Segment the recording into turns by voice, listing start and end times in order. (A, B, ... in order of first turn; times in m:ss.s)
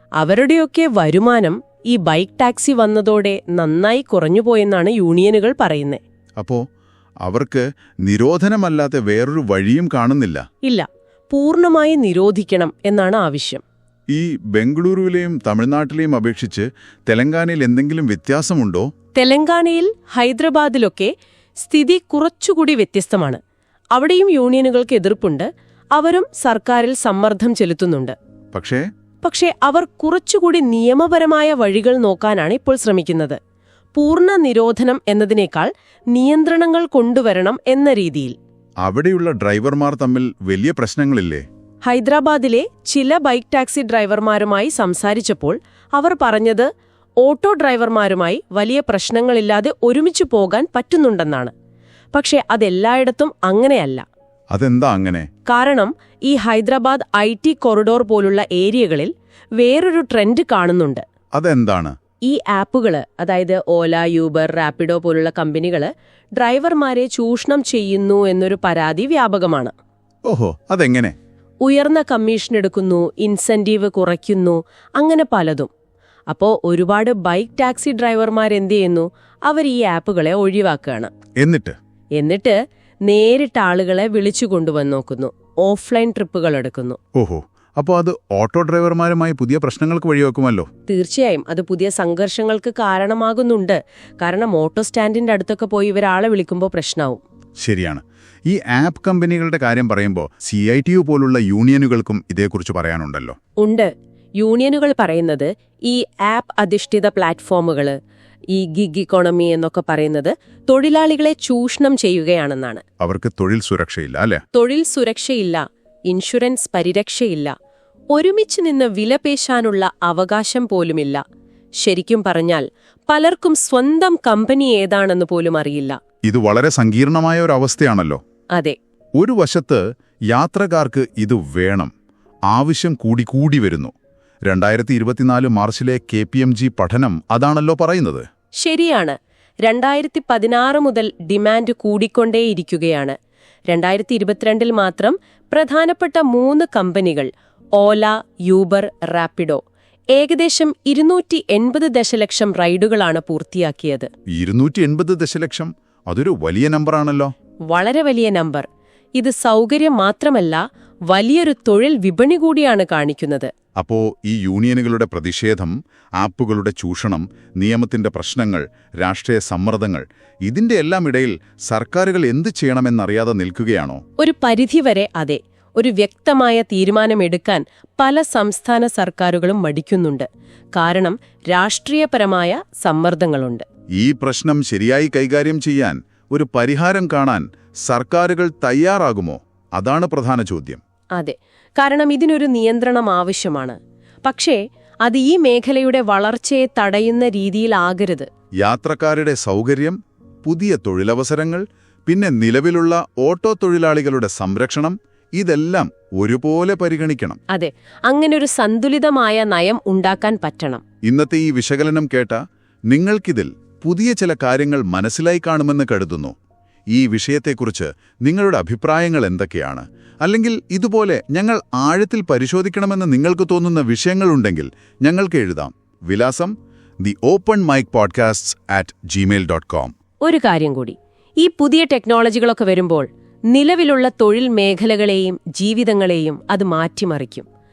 0:00.2-0:06.0 A
0:07.2-0:10.4 B
0:10.6-0:13.6 A
0:14.1-0:18.9 B
0:19.1-0:23.4 A
0:23.9-0:28.2 A
0:28.5-0:28.9 B
0:29.2-0:33.4 A
0:33.9-0:38.4 A
0:38.8-0:41.4 B
0:41.8-0:46.7 A
0:47.2-0:51.5 A
0:52.1-0:54.0 A
0:54.5-0:55.3 B
0:55.4-1:01.0 A
1:01.4-1:01.9 B
1:02.3-1:09.7 A
1:10.2-1:11.1 B
1:11.6-1:15.7 A
1:16.3-1:21.1 A
1:21.4-1:21.7 B
1:22.2-1:27.0 A
1:27.1-1:30.7 B
1:30.9-1:37.2 A
1:37.6-1:43.4 B
1:43.6-1:48.0 A
1:48.5-1:52.8 A
1:53.0-1:54.4 B
1:54.5-1:57.5 A
1:58.1-2:01.2 A
2:01.8-2:06.0 A
2:06.2-2:08.2 B
2:09.2-2:11.9 B
2:12.5-2:13.9 B
2:14.5-2:18.2 B
2:18.6-2:23.2 A
2:23.7-2:29.6 A
2:30.1-2:34.1 A
2:34.3-2:37.3 B
2:37.7-2:43.5 A
2:43.8-2:54.0 B
2:54.2-3:03.6 A
3:04.0-3:10.8 B
3:11.2-3:18.3 A
3:18.6-3:27.4 B
3:27.5-3:30.8 A
3:31.0-3:36.3 B
3:36.9-3:49.9 B
3:50.2-3:57.5 A